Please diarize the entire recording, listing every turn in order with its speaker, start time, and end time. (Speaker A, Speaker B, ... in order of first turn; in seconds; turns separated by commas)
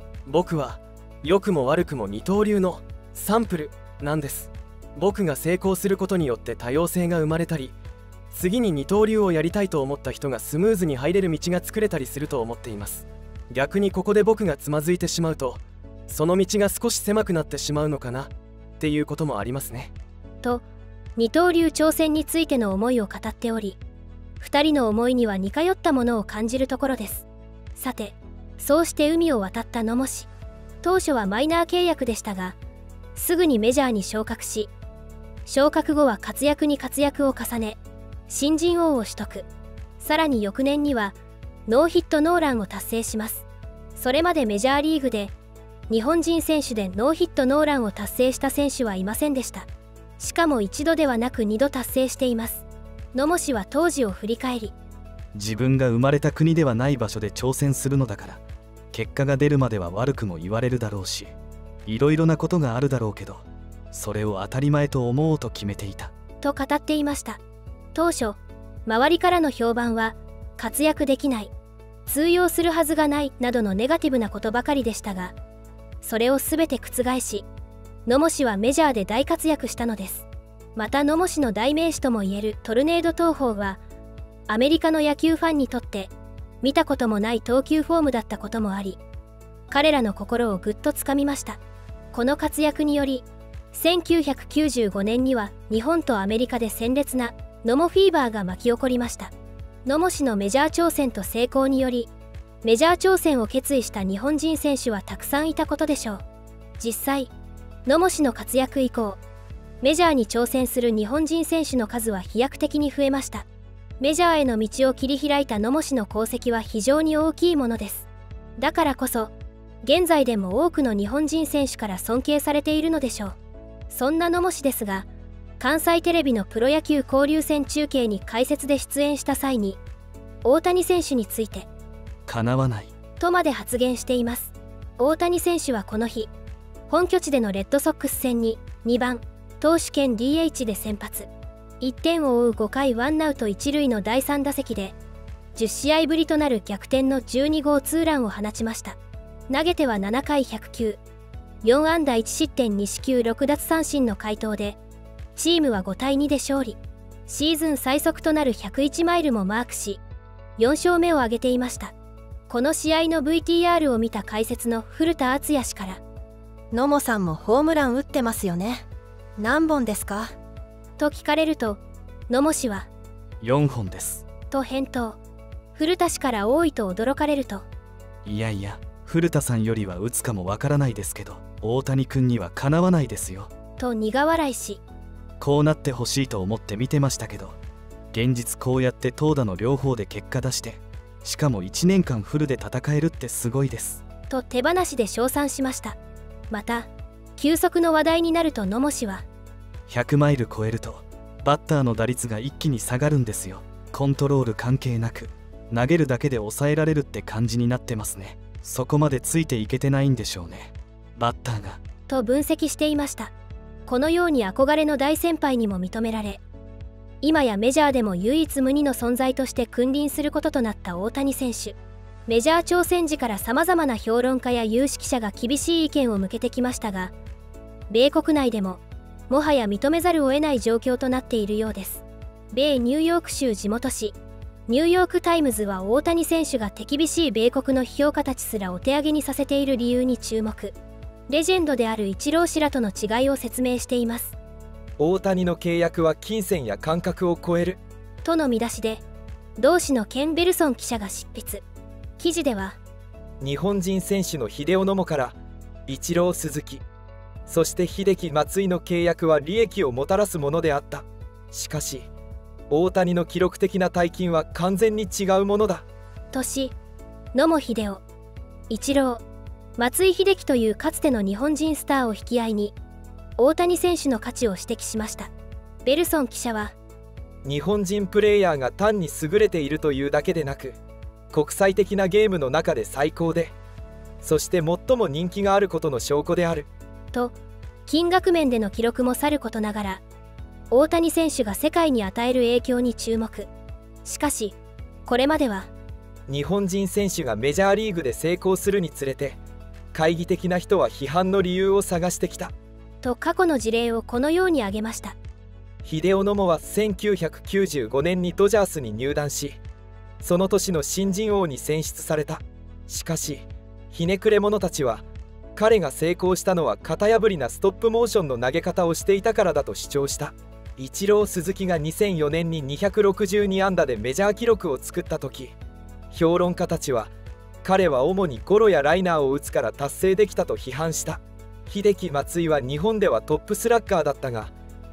Speaker A: 0.3-7.7, Speaker A: 8.3-19.9, Speaker B: 21.1-23.8, Speaker B: 24.4-30.3, Speaker B: 30.8-32.6, Speaker B: 33.1-34.7, Speaker B: 35.5-39.5, Speaker B: 40.0-41.1, Speaker B: 41.7-45.3, Speaker B: 45.9-49.7, Speaker B: 50.2-54.7, Speaker C: 55.3-58.4, Speaker C: 58.9-61.3, Speaker C: 61.9-66.1, Speaker B: 66.4-67.4, Speaker B: 67.9-71.5, Speaker B: 72.0-75.3, Speaker B: 76.0-77.5, Speaker B: 78.0-83.8, Speaker B: 84.5-86.1, Speaker B: 86.6-89.0, Speaker B: 89.7-91.6, Speaker B: 92.1-99.3, Speaker B: 99.8-102.1, Speaker B: 102.6-106.2, Speaker B: 106.8-107.3, Speaker B: 107.8-109.2, Speaker B: 109.8-113.5, Speaker B: 114.0-123.4, Speaker B: 123.9-125.1, Speaker B: 125.6-129.8, Speaker B: 130.4-131.7, Speaker C: 132.3-132.9, Speaker B: 133.2-136.3, Speaker B: 136.9-141.3, Speaker B: 141.8-144.9, Speaker B: 145.5-149.0, Speaker B: 149.5-151.0, Speaker B: 151.6-154.8, Speaker B: 155.3-160.0, Speaker B: 160.6-161.9, Speaker B: 162.5-166.0, Speaker D: 166.7-170.3, Speaker B: 171.0-172.9, Speaker C: 173.4-174.2, Speaker B: 174.5-175.2, Speaker B: 175.7-177.7, Speaker C: 178.2-183.5, Speaker B: 183.8-184.8, Speaker C: 185.4-187.6, Speaker C: 188.1-194.0, Speaker B: 194.3-196.0, Speaker B: 196.5-199.2, Speaker C: 199.9-211.8, Speaker B: 212.1-213.3, Speaker B: 213.9-216.4, Speaker B: 217.2-227.1, Speaker B: 227.9-234.2, Speaker B: 234.7-240.7, Speaker B: 241.3-244.3, Speaker E: 245.0-247.8, Speaker B: 248.2-249.0, Speaker B: 249.6-251.6, Speaker B: 252.2-252.8, Speaker E: 253.4-256.8, Speaker E: 257.5-262.1, Speaker E: 262.7-265.9, Speaker B: 266.3-266.7, Speaker B: 267.3-268.0, Speaker B: 268.7-269.2, Speaker B: 269.8-272.7, Speaker B: 273.4-275.3, Speaker B: 275.8-276.7, Speaker E: 277.4-280.8, Speaker E: 281.3-283.5, Speaker E: 284.2-286.7, Speaker B: 287.9-290.0, Speaker B: 290.7-293.5, Speaker B: 294.0-295.7, Speaker E: 296.3-299.4, Speaker E: 299.9-302.5, Speaker B: 303.0-305.2, Speaker E: 305.8-309.6, Speaker E: 310.2-325.5, Speaker E: 326.1-327.1, Speaker E: 327.6-334.5